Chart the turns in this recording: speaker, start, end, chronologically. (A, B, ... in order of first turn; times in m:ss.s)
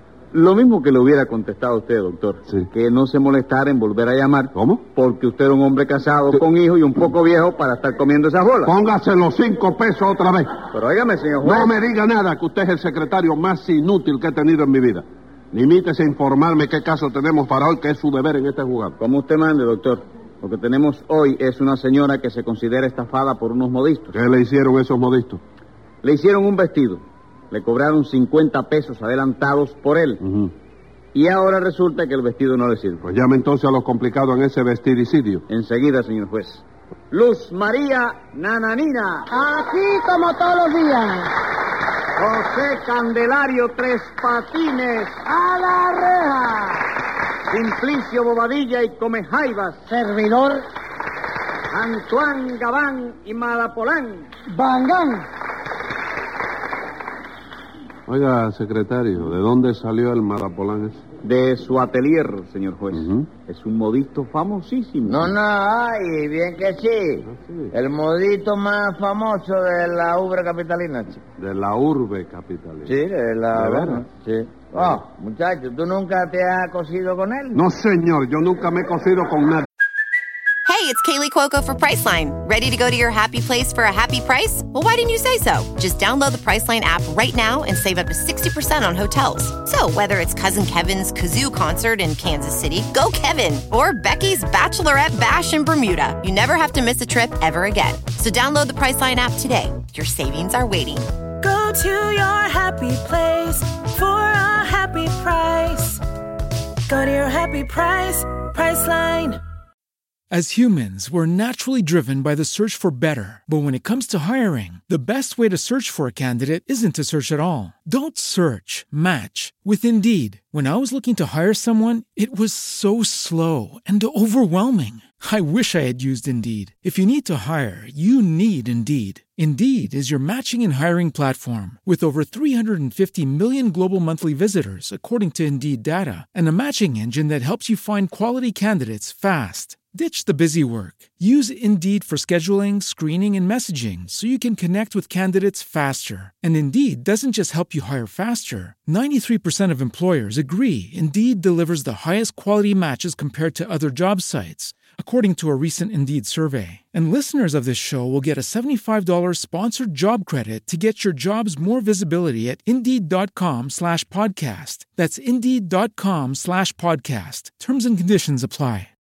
0:00.3-0:08.7 A
0:04.5-0:04.8 B
0:08.6-0:10.5 B
0:10.7-0:11.7 A
0:11.4-0:19.0 B
0:19.0-0:24.2 A
0:24.1-0:25.4 B
0:26.0-0:30.2 A
0:30.2-0:30.5 B
0:31.1-0:33.0 A
0:33.0-0:35.4 B
0:35.5-0:39.3 A
0:39.3-0:41.3 C
0:42.2-0:45.3 A
0:45.4-0:46.2 C
0:47.5-0:49.8 A
0:50.1-0:50.4 C
0:51.7-0:54.2 A
0:54.4-0:55.2 C
0:58.1-1:01.0 B
1:01.2-1:05.3 A
1:02.9-1:03.3 B
1:05.1-1:11.2 D
1:07.3-1:07.7 B
1:11.4-1:12.9 B
1:12.9-1:17.6 D
1:13.5-1:14.0 B
1:17.5-1:19.6 B
1:20.6-1:41.1 E
1:41.4-1:46.0 F
1:46.9-1:49.4 F
1:50.3-2:48.9 G